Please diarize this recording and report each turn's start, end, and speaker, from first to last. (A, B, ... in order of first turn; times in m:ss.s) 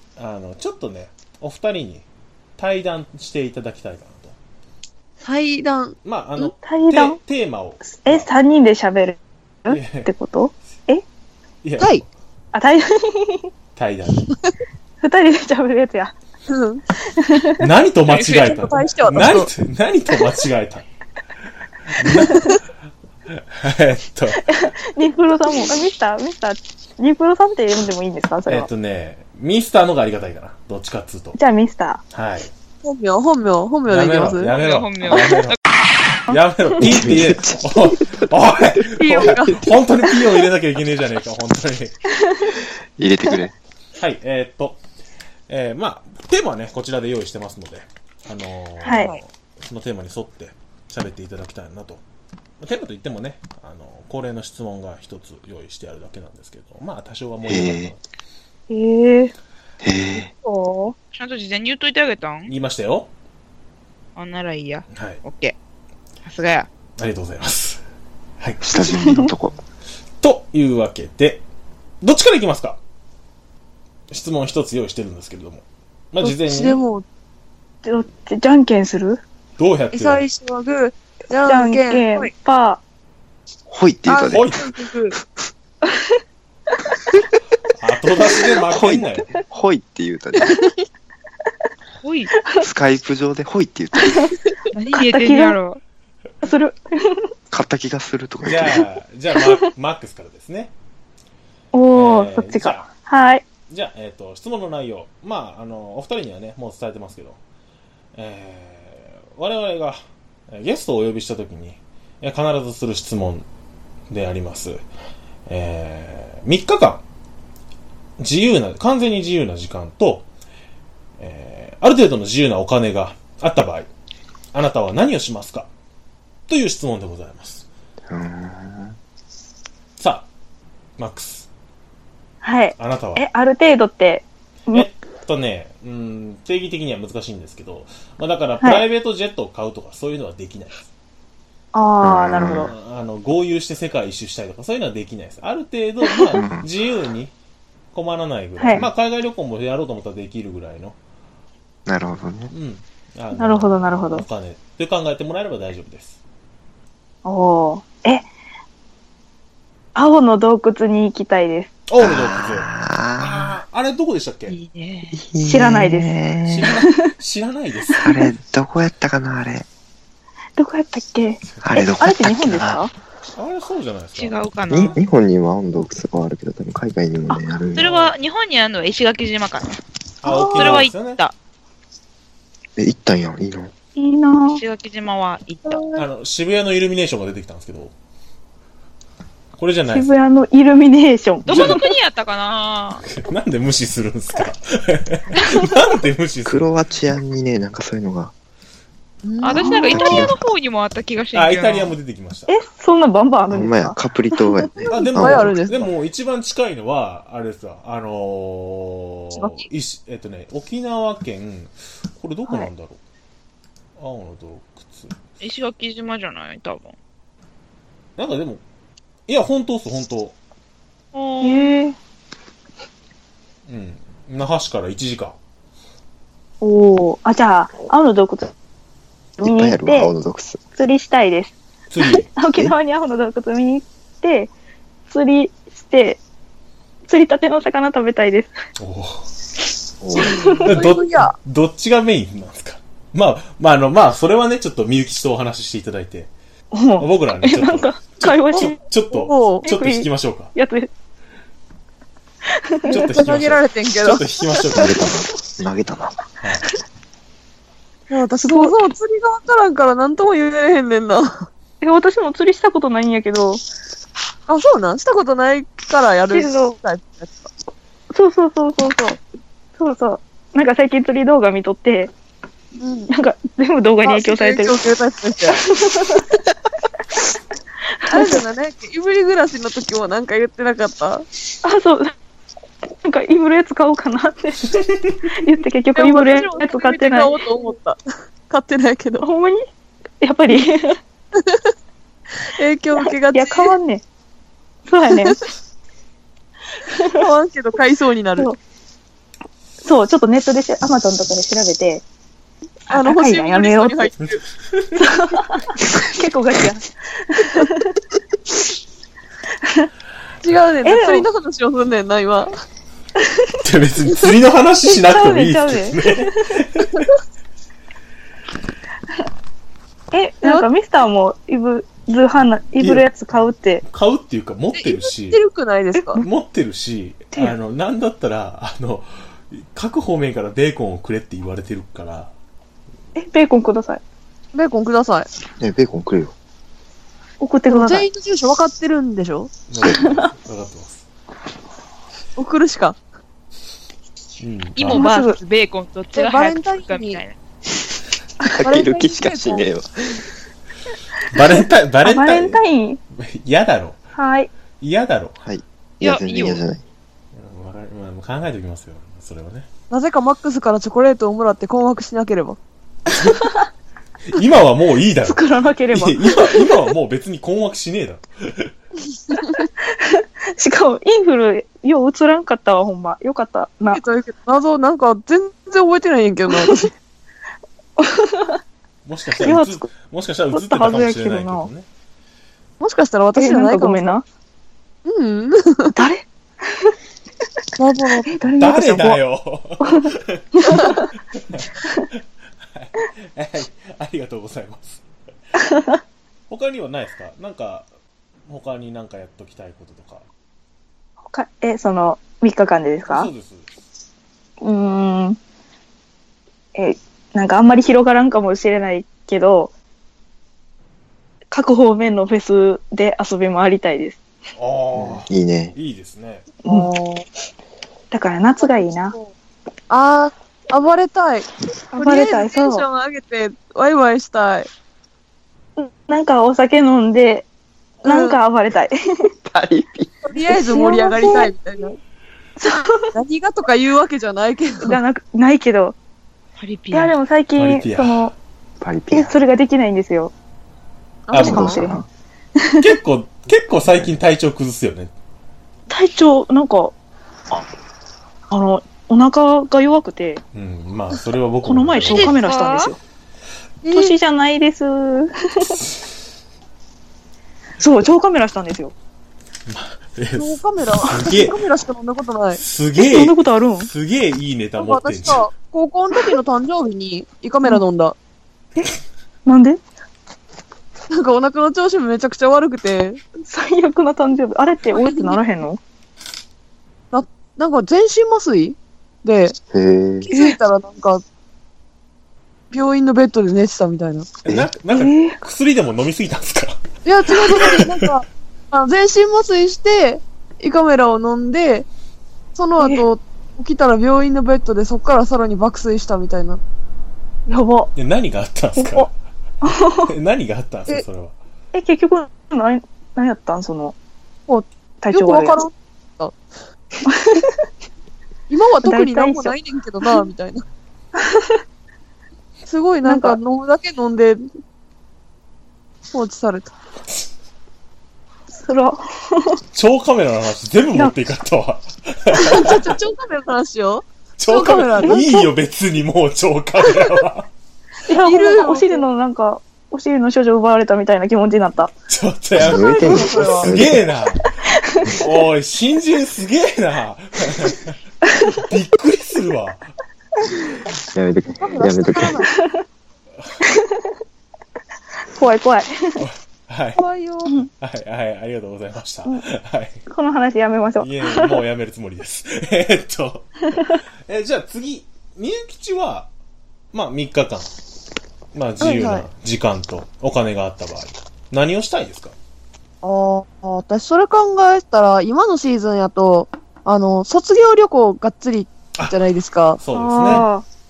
0:00.2-0:02.0 A
0:02.6-0:04.4 A
0:05.2-0:06.0 B
0:06.0-0:08.3 A
0:06.6-0:07.2 C
0:08.0-0:11.0 C
0:09.7-0:10.1 A
0:11.6-0:12.0 A
0:12.5-0:13.5 C
0:13.8-0:14.3 A
0:15.0-0:16.2 C
0:16.5-0:16.8 B
0:17.1-0:17.7 C
0:17.6-0:20.8 A
0:18.1-0:18.6 D
0:18.4-0:19.5 B
0:21.9-0:22.6 A
0:22.2-0:22.6 C
0:23.3-0:24.6 A
0:24.4-0:28.7 C
0:28.5-0:31.4 A
0:31.4-0:32.0 C
0:32.1-0:32.5 A
0:32.8-0:34.5 B
0:33.8-0:35.6 A
0:34.5-0:35.6 D
0:36.3-0:42.0 A
0:36.3-0:36.9 C
0:36.8-0:39.7 E
0:39.0-0:39.6 B
0:43.0-0:43.5 E
0:44.0-0:44.8 A
0:45.5-0:52.0 A
0:48.8-0:49.1 C
0:52.6-0:58.0 A
0:57.4-0:57.9 E
0:58.7-0:59.3 C
0:59.8-1:00.3 E
1:00.4-1:00.9 B
1:01.1-1:02.5 D
1:02.5-1:03.1 A
1:04.2-1:05.5 D
1:04.9-1:05.2 A
1:06.2-1:06.7 D
1:07.0-1:07.8 A
1:08.4-1:08.6 A
1:08.6-1:09.6 E
1:10.2-1:11.4 A
1:12.0-1:12.8 A
1:14.1-1:16.8 A
1:16.2-1:17.0 B
1:17.8-1:19.2 C
1:19.6-1:20.2 A
1:19.9-1:22.3 B
1:21.4-1:22.8 C
1:23.7-1:24.5 E
1:24.1-1:25.2 B
1:24.3-1:24.6 A
1:27.8-1:29.4 A
1:28.6-1:30.6 E
1:32.0-1:32.3 D
1:32.4-1:32.6 C
1:32.6-1:34.3 E
1:34.0-1:34.3 C
1:34.7-1:35.8 D
1:34.9-1:35.6 C
1:36.4-1:37.3 C
1:37.5-1:38.9 E
1:38.4-1:40.7 A
1:41.7-1:43.4 C
1:41.9-1:42.9 A
1:43.7-1:47.4 A
1:48.1-1:50.0 A
1:50.5-1:53.4 A
1:54.1-1:54.8 A
1:55.5-1:57.0 A
1:58.2-2:00.3 A
2:01.2-2:03.9 A
2:04.5-2:05.7 A
2:06.5-2:07.6 A
2:08.1-2:09.0 E
2:10.0-2:10.3 A
2:11.0-2:11.5 A
2:12.4-2:14.9 C
2:12.8-2:13.2 A
2:14.7-2:20.9 A
2:21.7-2:22.7 C
2:22.0-2:22.7 E
2:22.6-2:27.3 A
2:26.2-2:26.4 C
2:26.3-2:26.7 E
2:27.9-2:31.0 A
2:28.6-2:28.8 C
2:31.8-2:32.5 E
2:32.5-2:36.2 A
2:33.4-2:34.2 C
2:37.2-2:38.3 C
2:39.9-2:41.7 C
2:41.9-2:44.5 A
2:42.0-2:43.6 E
2:44.5-2:45.2 D
2:45.1-2:46.7 E
2:45.4-2:46.1 C
2:46.5-2:48.1 A
2:46.6-2:47.1 C
2:47.9-2:48.1 C
2:48.0-2:49.6 E
2:50.6-2:52.9 C
2:51.5-2:51.8 A
2:51.6-2:52.8 E
2:53.4-2:54.4 A
2:54.2-2:55.0 D
2:54.7-2:57.8 E
2:57.7-2:59.8 D
2:57.8-2:58.2 A
3:00.2-3:01.2 A
3:00.2-3:00.8 C
3:00.5-3:01.3 D
3:02.8-3:03.7 E
3:04.0-3:04.6 C
3:04.5-3:05.8 D
3:05.6-3:06.0 B
3:05.9-3:07.9 A
3:09.6-3:10.1 A
3:09.9-3:11.8 C
3:11.4-3:13.0 D
3:11.5-3:11.8 A
3:13.1-3:16.7 A
3:16.4-3:18.3 E
3:19.2-3:20.1 B
3:19.4-3:21.9 D
3:19.9-3:20.5 E
3:21.3-3:22.6 A
3:22.5-3:24.0 C
3:23.5-3:25.5 E
3:24.9-3:33.0 A
3:24.9-3:25.9 B
3:34.0-3:35.2 A
3:35.4-3:37.0 D
3:38.2-3:38.6 A
3:39.3-3:40.4 A
3:41.1-3:41.7 D
3:41.4-3:42.0 C
3:43.7-3:45.4 A
3:46.6-3:48.5 C
3:49.4-3:50.6 E
3:49.4-3:50.1 C
3:50.8-3:54.5 C
3:51.9-3:52.3 A
3:55.1-3:56.2 C
3:57.1-3:58.5 C
3:58.8-3:59.3 A
4:00.0-4:00.4 E
4:00.2-4:00.6 C
4:00.3-4:01.4 B
4:00.6-4:06.3 A
4:06.7-4:08.8 C
4:07.0-4:10.5 A
4:08.6-4:09.6 B
4:09.6-4:10.9 C
4:12.5-4:13.1 C
4:12.9-4:15.0 A
4:12.9-4:14.2 B
4:14.7-4:16.2 E
4:16.4-4:16.7 A
4:18.1-4:21.5 B
4:18.4-4:18.7 C
4:21.8-4:23.6 C
4:24.5-4:27.5 B
4:26.3-4:26.8 C
4:28.1-4:29.2 C
4:29.8-4:32.1 C
4:32.8-4:33.1 B
4:33.1-4:34.8 C
4:34.0-4:35.6 B
4:35.5-4:36.3 C
4:38.0-4:38.4 C
4:38.1-4:41.2 B
4:41.6-4:42.1 C
4:43.0-4:47.4 C
4:45.9-4:48.0 B
4:48.5-4:49.3 B
4:49.2-4:49.6 C
4:50.2-4:51.0 C
4:51.4-4:51.7 B
4:52.4-4:53.8 B
4:53.3-4:54.0 C
4:54.9-4:55.4 C
4:56.9-4:57.2 C
4:57.1-4:58.5 B
4:59.8-5:02.0 C
5:02.9-5:04.1 C
5:02.9-5:04.4 B
5:05.0-5:08.0 C
5:09.6-5:09.9 C
5:10.4-5:12.5 B
5:10.8-5:11.2 C
5:13.2-5:13.4 C
5:13.6-5:17.1 A
5:14.8-5:16.6 C
5:20.1-5:23.8 C
5:22.8-5:23.1 A
5:23.8-5:25.4 A
5:24.7-5:26.2 B
5:26.2-5:32.3 A
5:33.2-5:34.0 C
5:34.5-5:35.3 B
5:35.6-5:36.3 E
5:37.4-5:38.0 C
5:37.7-5:39.5 B
5:39.7-5:41.0 A
5:39.8-5:40.2 C
5:42.4-5:43.0 B
5:44.4-5:45.0 A
5:44.8-5:47.4 D
5:44.9-5:45.4 C
5:46.1-5:47.2 B
5:48.4-5:49.9 E
5:48.6-5:49.6 B
5:51.3-5:52.6 A
5:52.0-5:53.0 C
5:53.1-5:54.0 A
5:54.2-5:54.5 C
5:54.8-5:55.4 A
5:55.4-5:56.8 E
5:56.0-5:56.6 D
5:57.3-5:59.7 A
5:59.9-6:02.6 B
6:04.3-6:08.7 A
6:05.2-6:06.8 C
6:09.6-6:14.0 C
6:13.9-6:16.9 B
6:16.5-6:16.8 C
6:18.0-6:18.6 C
6:19.0-6:21.8 A
6:19.4-6:19.8 C
6:20.5-6:21.7 C
6:22.8-6:24.2 B
6:23.4-6:24.2 C
6:25.0-6:26.0 B
6:26.0-6:26.9 C
6:27.8-6:28.4 B
6:28.3-6:29.2 C
6:28.6-6:35.0 A
6:29.8-6:31.0 C
6:35.6-6:36.0 C
6:36.5-6:37.9 A
6:38.5-6:40.2 A
6:41.3-6:43.3 C
6:43.1-6:43.7 A
6:44.6-6:45.4 C
6:46.7-6:49.7 C
6:51.5-6:54.2 C
6:54.6-6:56.5 A
6:54.9-6:55.7 E
6:56.6-6:57.2 C
6:58.1-6:59.1 C
6:58.6-6:59.3 B
6:59.9-7:04.7 B
7:01.9-7:02.8 C
7:05.8-7:07.5 C
7:08.0-7:08.4 B
7:08.0-7:09.3 C
7:09.4-7:10.2 E
7:10.2-7:12.0 B
7:10.5-7:11.5 C
7:12.6-7:13.1 C
7:13.1-7:15.0 B
7:14.8-7:16.0 C
7:16.6-7:17.1 D
7:16.9-7:18.3 C
7:17.6-7:18.3 A
7:18.8-7:19.4 E
7:19.1-7:20.3 C
7:21.3-7:21.8 B
7:21.3-7:21.7 A
7:21.3-7:22.0 C
7:21.4-7:22.0 E
7:22.8-7:25.1 A
7:25.9-7:26.9 C
7:28.5-7:30.4 C
7:30.5-7:32.3 A
7:31.6-7:33.0 C
7:32.0-7:32.9 D
7:33.8-7:34.1 B
7:33.9-7:35.8 C
7:37.8-7:38.9 C
7:39.7-7:41.6 A
7:40.4-7:42.6 B
7:42.6-7:45.4 A
7:43.0-7:43.9 C
7:44.8-7:48.2 B
7:49.4-7:49.8 C
7:51.1-7:53.2 B
7:53.4-7:55.8 C
7:55.0-7:55.4 B
7:57.1-7:59.6 B
7:59.7-8:00.3 E
8:00.2-8:01.2 B
8:00.3-8:00.6 C
8:02.7-8:04.3 B
8:04.4-8:06.8 A
8:04.9-8:05.4 C
8:07.0-8:11.9 B
8:07.3-8:08.0 A
8:12.6-8:16.6 B
8:12.8-8:13.0 C
8:17.5-8:17.9 C
8:18.0-8:19.1 A
8:18.8-8:19.1 C
8:19.6-8:20.1 C
8:20.0-8:21.3 A
8:21.7-8:23.9 C
8:24.5-8:26.4 B
8:25.0-8:25.6 C
8:27.1-8:27.5 C
8:28.5-8:30.6 B
8:28.8-8:29.5 C
8:31.2-8:31.6 C
8:32.6-8:34.4 B
8:33.0-8:33.4 C
8:36.1-8:36.7 B
8:38.6-8:39.6 C
8:39.7-8:42.9 A
8:42.3-8:45.2 B
8:44.4-8:47.5 A
8:45.0-8:45.5 C
8:48.0-8:51.9 C
8:48.2-8:49.0 B
8:52.1-8:54.6 A
8:52.6-8:54.1 E
8:52.7-8:53.7 B
8:54.8-8:55.2 C
8:55.1-8:58.0 A
8:58.5-8:59.8 A
9:01.1-9:02.4 E
9:01.6-9:02.5 B
9:05.3-9:06.2 C
9:06.2-9:07.0 A
9:07.0-9:07.5 B
9:07.8-9:10.0 A
9:10.1-9:11.6 C
9:11.0-9:16.3 A
9:16.9-9:17.7 A
9:18.5-9:22.3 A
9:18.8-9:19.2 B
9:23.0-9:29.8 B
9:29.8-9:30.5 A
9:29.9-9:30.6 C